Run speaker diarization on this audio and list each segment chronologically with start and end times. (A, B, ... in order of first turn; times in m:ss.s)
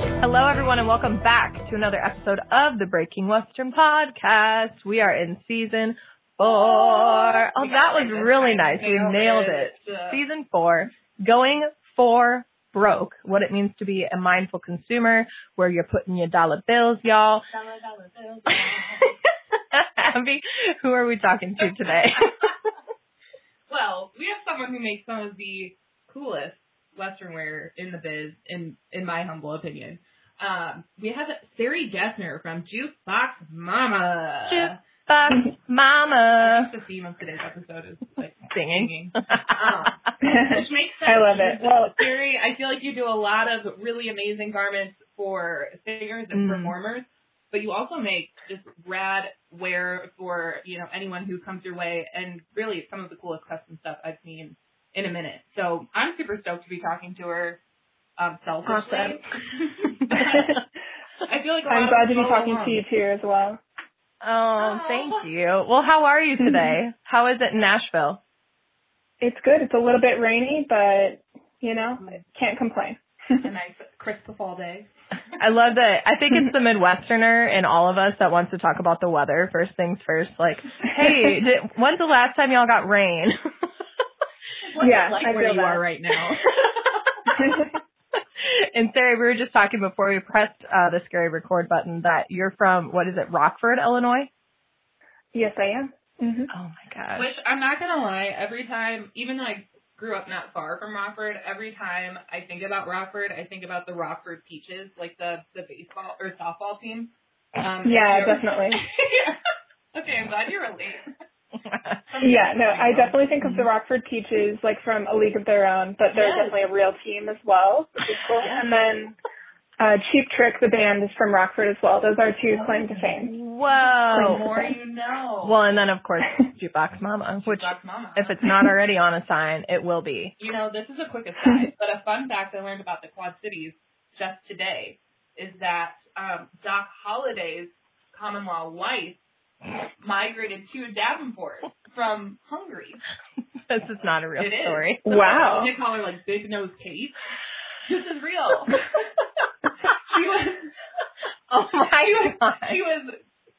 0:00.2-0:17.5 A
0:06.4-0:10.2 B
0:17.5-0:19.2 B
0:19.7-0:22.5 A
0:22.2-0:22.4 B
0:23.7-0:34.8 B
0:34.5-0:36.7 A
0:36.4-0:57.6 B
0:38.5-0:39.5 A
0:40.2-0:42.0 C
0:46.3-0:46.7 A
0:58.2-0:59.2 B
0:58.6-0:59.2 C
0:59.8-1:00.6 B
1:00.1-1:00.5 C
1:01.2-1:02.8 B
1:01.7-1:03.6 C
1:04.2-1:08.2 A
1:04.6-1:05.2 B
1:06.4-1:06.8 C
1:09.2-1:13.4 C
1:13.4-1:14.9 B
1:15.4-1:23.4 A
1:24.7-1:27.6 B
1:24.8-1:25.8 C
1:27.4-1:27.6 C
1:28.4-1:34.3 A
1:35.3-1:36.5 C
1:36.5-1:37.3 A
1:37.1-1:49.4 B
1:47.8-1:48.8 C
1:49.9-1:51.1 B
1:51.6-1:52.0 A
1:52.1-1:53.3 B
1:52.2-1:59.1 C
1:56.1-1:56.6 B
1:59.8-2:03.4 C
2:03.2-2:04.6 A
2:03.7-2:05.6 B
2:05.4-2:10.3 A
2:07.4-2:08.5 B
2:10.4-2:19.2 B
2:20.0-2:23.0 B
2:23.7-2:25.0 A
2:24.4-2:27.1 B
2:25.0-2:25.7 C
2:27.8-2:28.8 B
2:29.9-2:30.8 B
2:31.5-2:32.8 A
2:31.9-2:33.2 B